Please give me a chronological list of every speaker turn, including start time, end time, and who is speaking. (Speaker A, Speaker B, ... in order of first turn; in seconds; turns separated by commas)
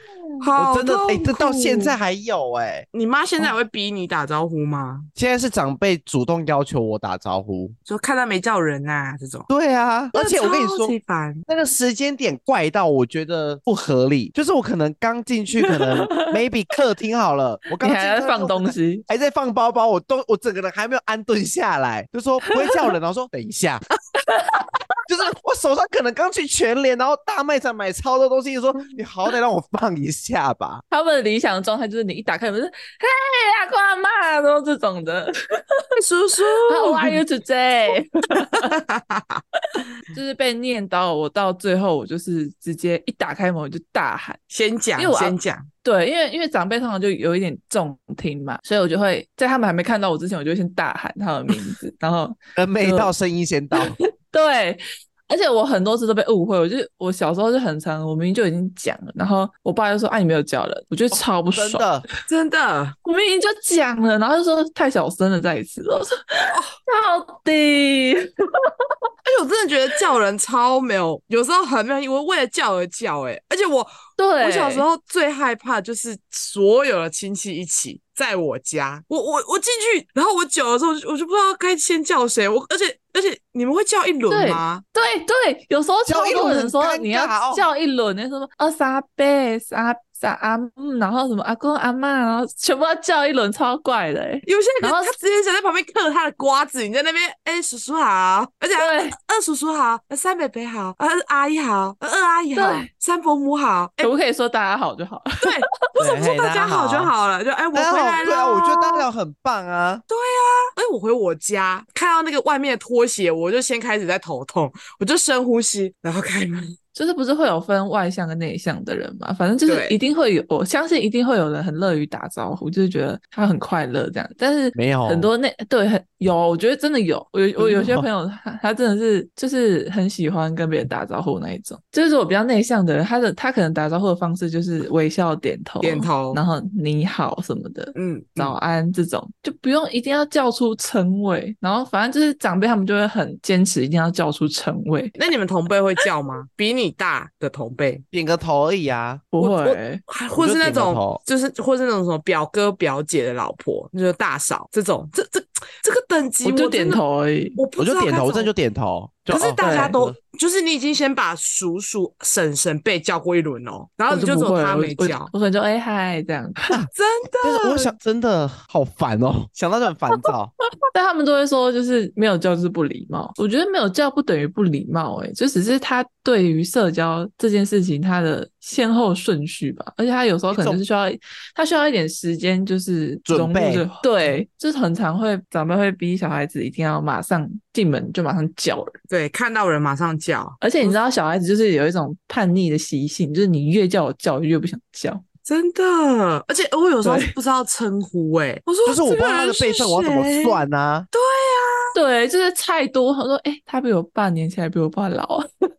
Speaker A: 0.4-2.0, Speaker B: 0.6-2.9, Speaker A: 2.9-5.1, Speaker B: 5.2-7.8, Speaker A: 7.8-9.5, Speaker B: 9.5-10.9, Speaker A: 10.1-11.4, Speaker B: 11.5-23.8, Speaker C: 15.7-16.4, Speaker C: 17.8-19.1, Speaker C: 24.2-24.7, Speaker B: 25.1-30.8, Speaker C: 30.9-35.8, Speaker A: 36.0-37.2, Speaker C: 36.6-38.8, Speaker A: 38.5-39.4, Speaker C: 39.7-44.4, Speaker A: 44.5-45.7, Speaker C: 45.0-53.1, Speaker B: 52.5-54.0, Speaker C: 53.7-61.9, Speaker B: 61.1-62.0, Speaker A: 62.3-63.0, Speaker C: 63.0-68.7, Speaker A: 69.2-84.8, Speaker C: 74.2-74.8, Speaker C: 84.3-95.1, Speaker B: 86.0-87.6, Speaker A: 94.5-104.1, Speaker C: 98.8-99.2, Speaker C: 102.5-102.9, Speaker C: 104.0-105.5, Speaker A: 105.4-109.1, Speaker B: 106.0-107.1, Speaker B: 107.7-110.0, Speaker A: 110.1-116.7, Speaker C: 116.9-145.2, Speaker A: 119.6-120.0, Speaker B: 124.7-125.3, Speaker B: 127.6-128.1, Speaker A: 135.8-136.4, Speaker A: 137.9-138.6, Speaker A: 145.2-148.0, Speaker B: 148.1-149.2, Speaker C: 149.3-150.0, Speaker A: 149.4-157.0, Speaker B: 150.3-151.2, Speaker C: 156.4-157.6, Speaker A: 157.5-158.5, Speaker B: 157.8-160.2, Speaker A: 159.3-165.3, Speaker C: 159.6-160.0, Speaker C: 164.1-166.8, Speaker A: 166.9-167.9, Speaker B: 167.4-170.5, Speaker C: 170.9-189.0, Speaker B: 180.5-180.8, Speaker B: 183.2-183.8, Speaker A: 189.1-191.0, Speaker C: 190.6-195.2, Speaker A: 195.4-201.9, Speaker C: 197.0-197.3, Speaker B: 198.8-201.1, Speaker C: 201.9-205.5